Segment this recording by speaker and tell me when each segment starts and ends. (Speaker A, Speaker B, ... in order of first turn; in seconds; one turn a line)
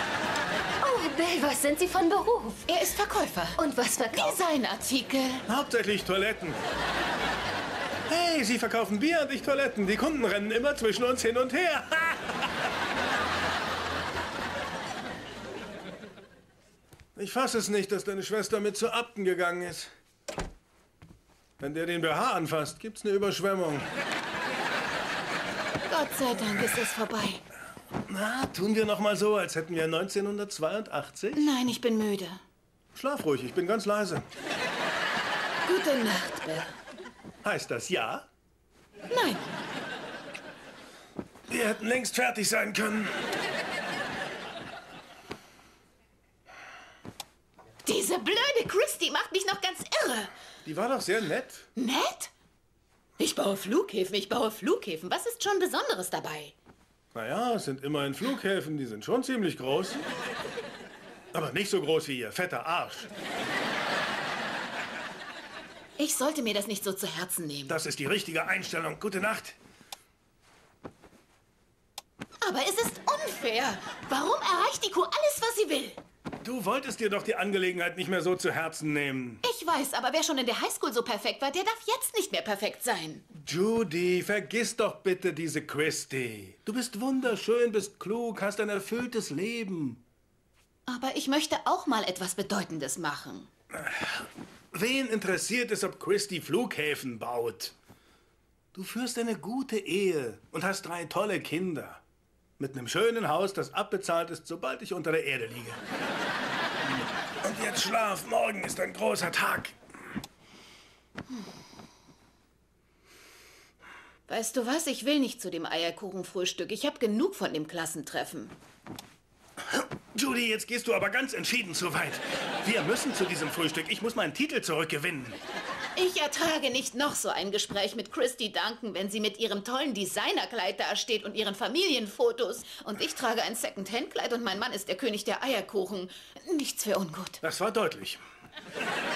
Speaker A: 0.8-2.7
Speaker B: 2.7-3.6
Speaker A: 3.6-4.4
Speaker B: 4.1-5.4
Speaker C: 5.5-6.6
Speaker C: 8.1-12.5
Speaker C: 17.2-19.9
Speaker C: 21.6-23.9
Speaker B: 25.9-27.4
Speaker C: 28.1-31.5
Speaker B: 31.4-32.4
Speaker C: 32.9-34.3
Speaker B: 35.6-36.8
Speaker C: 37.5-38.3
Speaker B: 39.1-39.4
Speaker C: 41.5-43.1
Speaker B: 47.9-50.3
Speaker C: 50.6-51.7
Speaker B: 51.8-52.3
Speaker B: 53.2-56.5
Speaker C: 57.1-60.0
Speaker C: 61.3-63.1
Speaker B: 66.0-67.8
Speaker C: 67.7-69.6
Speaker B: 72.4-76.0
Speaker C: 76.4-79.4
Speaker B: 79.4-83.2
Speaker C: 83.4-90.0
Speaker B: 90.9-93.5
Speaker C: 93.8-97.8
Speaker C: 98.7-102.0
Speaker C: 102.6-105.8
Speaker C: 107.4-109.8
Speaker B: 114.3-118.5
Speaker C: 119.7-125.4
Speaker B: 126.0-137.4
Speaker C: 137.4-138.2